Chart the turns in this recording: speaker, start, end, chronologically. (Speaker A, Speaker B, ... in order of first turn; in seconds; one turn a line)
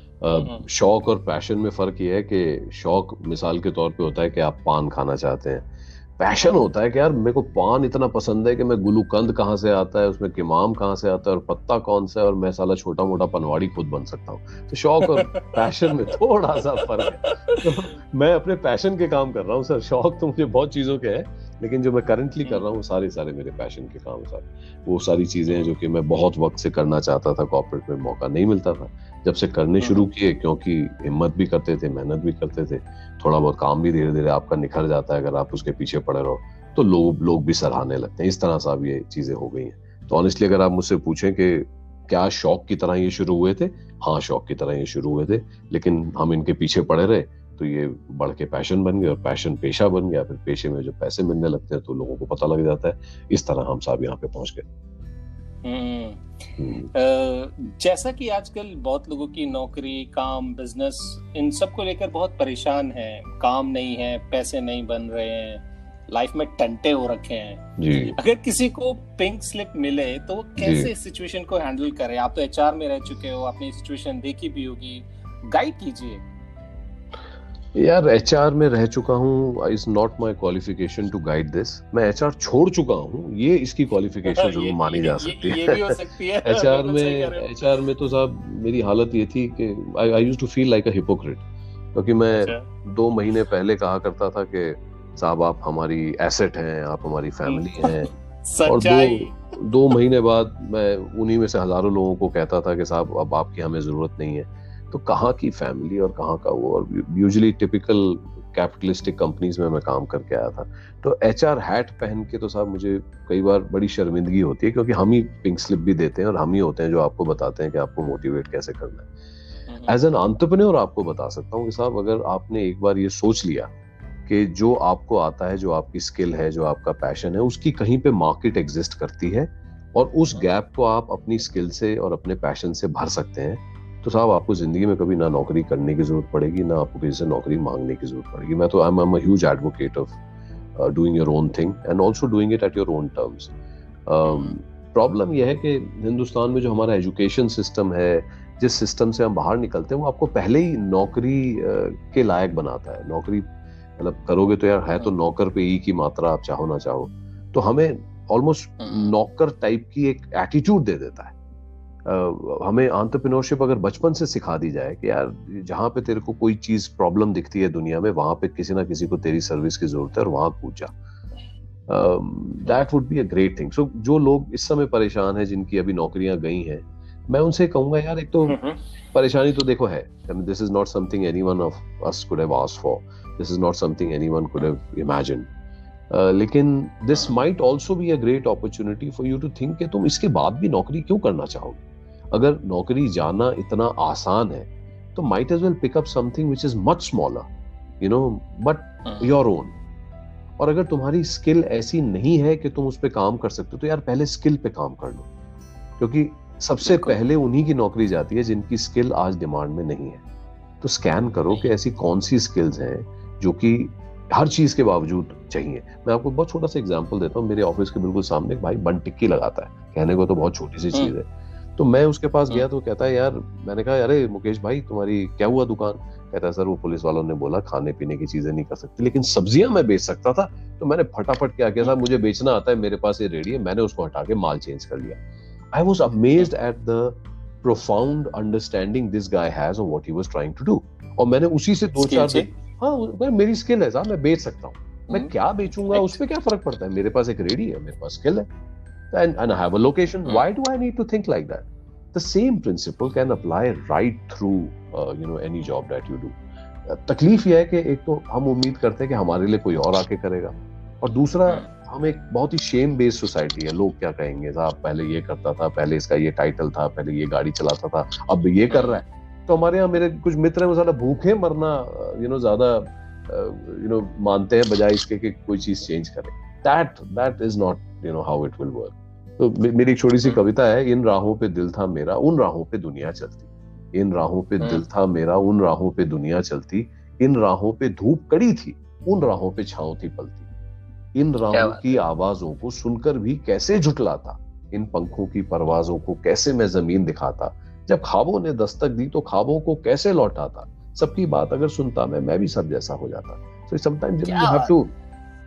Speaker A: 0.2-54.6
Speaker B: 0.3-0.7
Speaker B: 17.0-17.6
Speaker B: 29.8-30.1
Speaker B: 55.6-56.2
Speaker A: 56.6-56.9
Speaker B: 56.9-76.2
Speaker A: 67.8-68.2
Speaker A: 70.6-70.9
Speaker A: 77.8-98.1
Speaker B: 84.3-87.6
Speaker B: 92.4-92.7
Speaker B: 97.5-99.5
Speaker A: 98.7-119.1
Speaker B: 119.7-120.0
Speaker A: 119.9-123.7
Speaker A: 124.3-140.2
Speaker A: 140.8-143.6
Speaker A: 144.1-161.3
Speaker B: 144.2-144.6
Speaker B: 158.8-159.2
Speaker A: 162.1-170.9
Speaker A: 171.9-178.6
Speaker B: 178.5-178.8
Speaker A: 179.1-185.5
Speaker A: 186.1-191.8
Speaker A: 192.3-197.5
Speaker A: 198.0-199.8
Speaker B: 199.1-199.3
Speaker A: 200.6-205.3
Speaker A: 206.0-210.2
Speaker B: 206.8-207.2
Speaker A: 210.8-235.2
Speaker A: 235.7-248.5
Speaker B: 241.9-242.5
Speaker B: 245.9-246.2
Speaker A: 249.1-290.5
Speaker B: 268.7-269.0
Speaker B: 284.6-284.9
Speaker A: 291.1-304.9
Speaker B: 291.5-292.0
Speaker B: 304.3-304.8